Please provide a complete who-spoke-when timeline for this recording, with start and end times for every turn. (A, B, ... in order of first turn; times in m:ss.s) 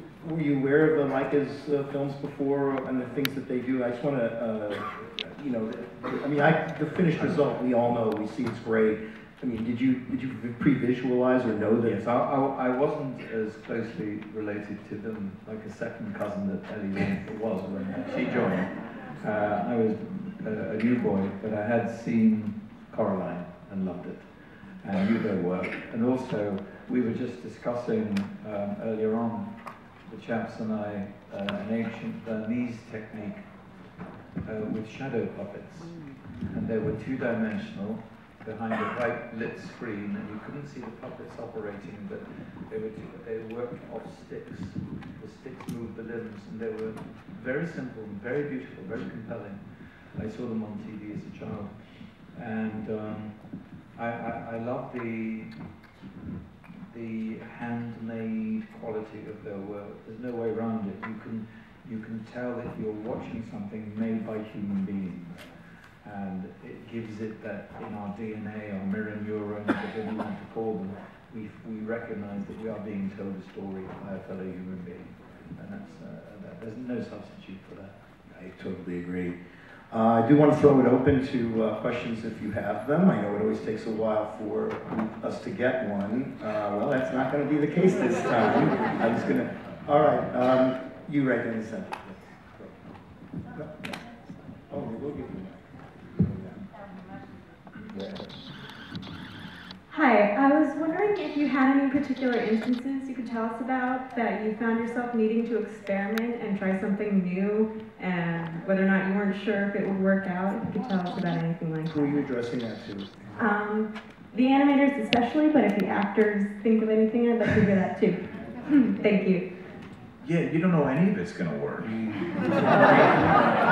0:00.2-0:12.0 A
0:11.8-0:33.5 B
0:34.4-0:55.6 B
0:56.9-1:18.0 B
1:18.3-1:19.4 A
1:19.9-1:32.8 A
1:33.5-1:34.0 A
1:34.7-1:36.6 A
1:37.9-1:38.3 A
1:39.9-1:52.0 C
1:51.9-1:53.5 A
1:53.4-1:59.4 C
2:00.2-2:03.4 D